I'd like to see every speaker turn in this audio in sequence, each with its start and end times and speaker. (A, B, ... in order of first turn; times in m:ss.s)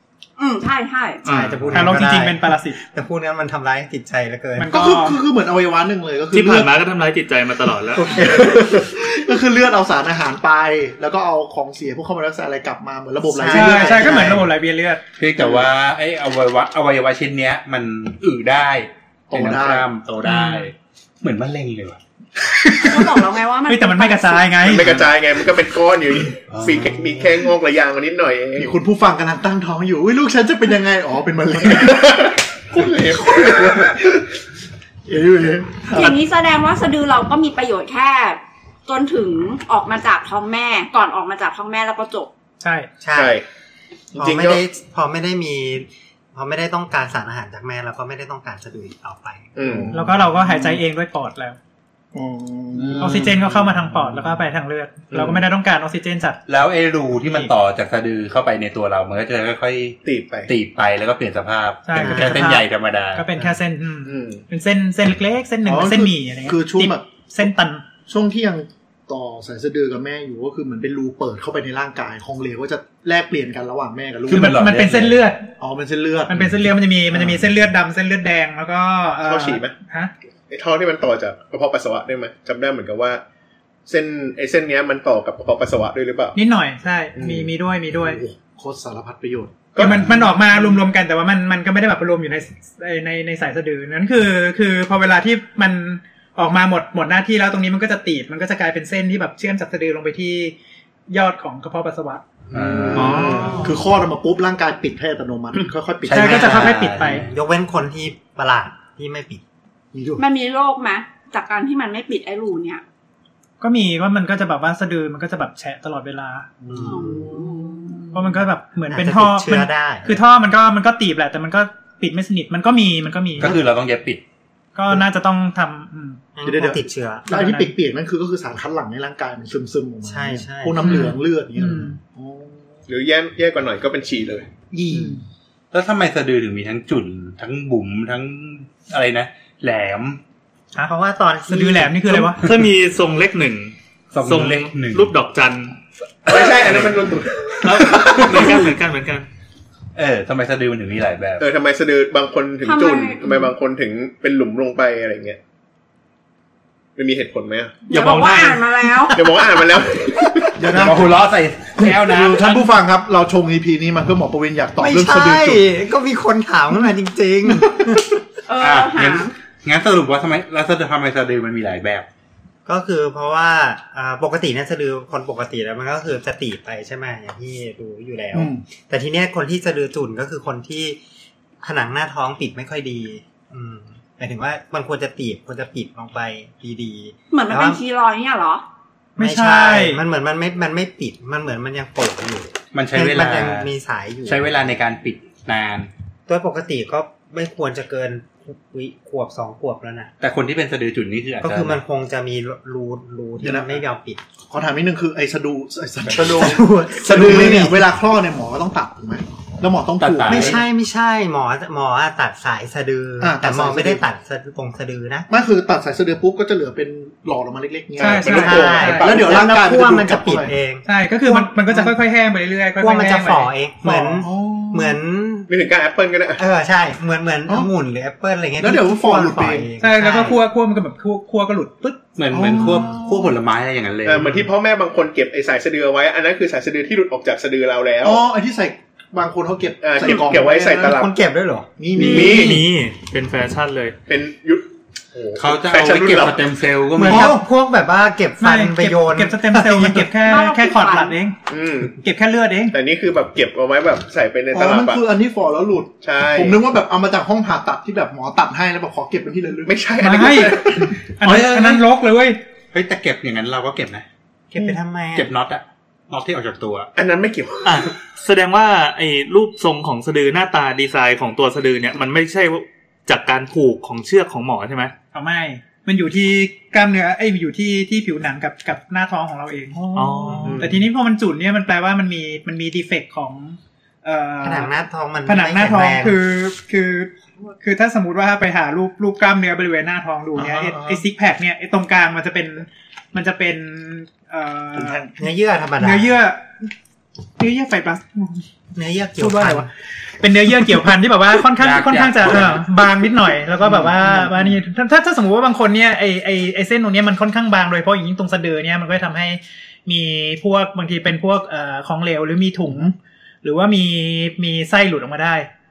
0:00.4-0:01.3 A
0:01.2-0:01.7 B
0:01.3-0:04.8 C
0:01.7-0:02.8 D
0:04.6-0:05.2 D
0:04.7-0:06.8 E
0:06.3-0:08.4 B
0:08.0-0:14.5 E
0:13.2-0:14.5 C
0:13.5-0:15.0 D
0:15.2-0:22.0 F
0:19.3-0:19.9 E
0:20.2-0:20.7 D
0:22.8-0:24.6 A
0:23.7-0:24.9 D
0:24.6-0:28.7 G
0:24.8-0:25.1 F
0:26.5-0:27.1 F
0:28.6-0:32.0 E
0:31.6-0:33.9 G
0:33.6-0:34.1 E
0:35.1-0:36.2 E
0:35.9-0:42.3 A
0:42.6-0:42.9 D
0:43.0-0:43.4 C
0:43.1-0:43.4 G
0:44.1-0:44.6 G
0:44.1-0:49.6 C
0:49.6-0:49.9 G
0:49.7-0:50.7 E
0:49.9-0:51.6 D
0:52.1-0:53.1 E
0:53.0-0:56.4 D
0:56.5-1:03.3 F
0:57.2-0:57.5 D
1:00.0-1:00.5 G
1:01.8-1:07.8 D
1:02.0-1:02.4 C
1:04.1-1:04.4 G
1:05.6-1:07.1 E
1:08.1-1:14.6 E
1:14.3-1:15.2 F
1:14.3-1:15.5 D
1:15.6-1:16.5 E
1:16.3-1:20.1 D
1:17.1-1:17.4 E
1:19.2-1:19.8 G
1:20.5-1:23.2 G
1:23.9-1:26.4 G
1:26.4-1:28.2 D
1:27.2-1:27.4 G
1:28.0-1:30.8 E
1:29.7-1:30.0 G
1:29.8-1:40.6 D
1:41.1-1:42.2 D
1:42.5-1:46.8 E
1:42.5-1:43.4 F
1:42.9-1:43.6 B
1:46.1-1:47.3 F
1:46.1-1:47.2 D
1:47.1-1:49.4 C
1:49.9-1:50.3 E
1:50.2-1:52.8 A
1:53.6-1:56.5 D
1:56.6-1:58.2 E
1:56.7-1:57.1 C
1:56.8-1:58.0 A
1:58.1-2:03.6 D
1:58.9-2:00.2 C
2:03.4-2:04.2 F
2:04.8-2:06.5 D
2:06.4-2:07.3 C
2:06.4-2:12.8 E
2:07.3-2:07.7 D
2:10.0-2:11.0 C
2:10.8-2:12.0 D
2:12.9-2:14.5 G
2:14.7-2:15.2 E
2:14.9-2:15.2 D
2:15.7-2:20.2 F
2:20.8-2:22.1 C
2:21.5-2:22.4 D
2:22.4-2:25.8 B
2:24.1-2:25.1 F
2:26.3-2:28.7 G
2:26.3-2:28.4 F
2:27.6-2:29.3 B
2:30.0-2:31.5 F
2:31.4-2:35.4 G
2:32.6-2:33.5 A
2:37.0-2:37.8 G
2:37.9-2:39.5 A
2:37.9-2:39.0 B
2:39.1-2:40.6 G
2:40.6-2:41.2 E
2:40.7-2:42.7 F
2:41.8-2:45.7 E
2:44.8-2:48.2 C
2:48.5-2:49.3 A
2:48.6-2:52.1 F
2:52.7-3:01.0 C
2:58.3-2:58.6 E
3:01.6-3:07.8 C
3:07.3-3:08.6 A
3:09.2-3:10.0 D
3:09.2-3:14.6 C
3:12.7-3:13.7 F
3:14.3-3:15.9 F
3:16.3-3:20.1 C
3:20.2-3:21.8 F
3:21.4-3:24.2 C
3:23.4-3:23.8 E
3:24.5-3:30.6 E
3:26.1-3:27.9 C
3:27.0-3:27.3 F
3:30.0-3:30.6 F
3:30.2-3:35.3 C
3:33.2-3:34.0 E
3:35.3-3:40.5 E
3:38.0-3:39.2 D
3:38.0-3:38.9 G
3:38.3-3:40.9 C
3:40.8-3:44.3 D
3:41.2-3:41.9 E
3:42.8-3:45.5 C
3:44.2-3:45.0 E
3:45.5-3:46.4 G
3:46.4-3:50.4 C
3:48.6-3:49.7 E
3:49.8-3:52.0 D
3:52.2-3:54.5 F
3:52.3-3:53.3 E
3:54.0-3:58.2 G
3:58.0-4:00.9 E
3:59.8-4:01.1 G
4:00.4-4:01.7 C
4:01.8-4:02.7 E
4:02.0-4:04.0 B
4:02.0-4:02.6 G
4:04.1-4:06.4 G
4:05.4-4:07.3 F
4:07.0-4:10.1 C
4:07.0-4:07.4 D
4:07.1-4:07.4 E
4:08.4-4:11.4 D
4:10.2-4:11.2 A
4:11.5-4:12.0 G
4:12.0-4:12.8 D
4:12.7-4:15.0 G
4:14.5-4:19.8 E
4:16.0-4:16.6 G
4:19.7-4:20.6 G
4:20.0-4:22.4 D
4:20.4-4:20.9 E
4:21.2-4:21.8 F
4:22.7-4:24.0 F
4:24.5-4:25.3 C
4:25.2-4:26.9 F
4:27.0-4:27.9 G
4:27.6-4:34.9 B
4:35.1-4:39.8 D
4:39.7-4:40.6 E
4:39.9-4:40.7 B
4:40.4-4:40.8 G
4:40.6-4:44.7 D
4:44.4-4:46.2 C
4:45.2-4:55.0 D
4:50.4-4:51.0 E
4:54.8-4:55.2 E
4:55.2-4:56.2 C
4:55.8-4:56.7 D
4:57.4-4:58.4 D
4:58.8-4:59.7 C
4:59.2-4:59.6 D
5:00.2-5:15.5 D
5:01.6-5:02.7 F
5:03.7-5:04.5 E